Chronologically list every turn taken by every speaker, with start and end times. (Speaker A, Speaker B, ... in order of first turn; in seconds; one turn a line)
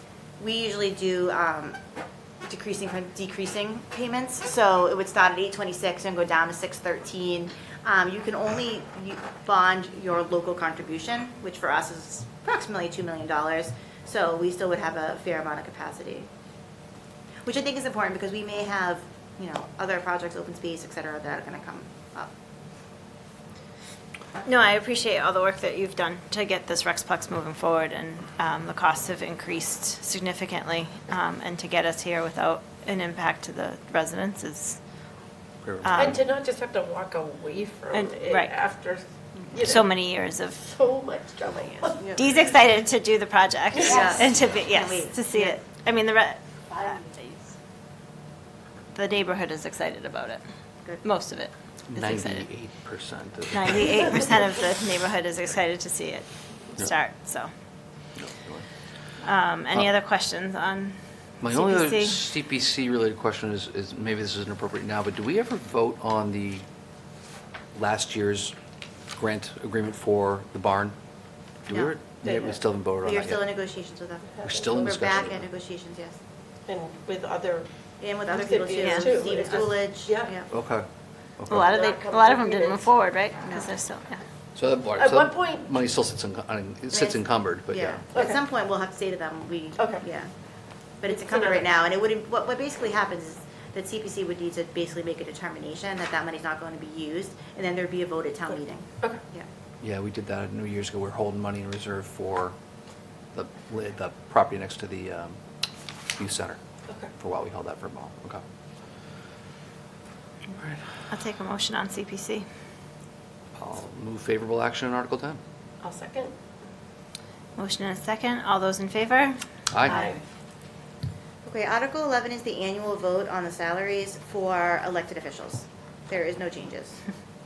Speaker A: 0.4-1.8
Speaker A: 2.5-16.3
Speaker A: 17.4-22.3
Speaker B: 24.4-34.8
Speaker C: 35.6-36.2
Speaker B: 35.8-36.2
Speaker D: 36.0-39.9
Speaker B: 37.9-38.5
Speaker B: 39.6-40.6
Speaker D: 40.6-42.1
Speaker B: 42.1-47.5
Speaker D: 43.8-44.1
Speaker A: 43.8-45.2
Speaker B: 48.9-50.4
Speaker B: 51.0-52.5
Speaker C: 51.9-54.2
Speaker B: 53.5-57.5
Speaker C: 58.2-58.7
Speaker B: 59.2-62.2
Speaker C: 61.4-66.6
Speaker C: 67.8-68.5
Speaker C: 69.1-71.0
Speaker C: 71.6-73.5
Speaker D: 72.2-72.6
Speaker A: 73.0-76.2
Speaker D: 74.3-74.9
Speaker C: 74.4-75.5
Speaker D: 76.7-77.7
Speaker A: 78.0-80.5
Speaker D: 78.3-80.3
Speaker B: 78.8-79.2
Speaker C: 80.5-80.8
Speaker C: 81.4-81.7
Speaker B: 81.5-84.2
Speaker D: 81.5-82.9
Speaker A: 83.4-83.7
Speaker C: 84.5-88.0
Speaker D: 85.0-85.7
Speaker A: 86.9-90.3
Speaker D: 88.1-88.4
Speaker D: 89.8-90.0
Speaker A: 91.0-99.5
Speaker D: 91.1-91.7
Speaker C: 99.8-102.5
Speaker C: 103.3-105.4
Speaker C: 106.1-106.6
Speaker C: 107.1-108.4
Speaker B: 111.1-112.5
Speaker C: 113.5-115.4
Speaker D: 115.8-116.3
Speaker B: 117.5-120.1
Speaker D: 119.8-120.2
Speaker A: 121.4-127.0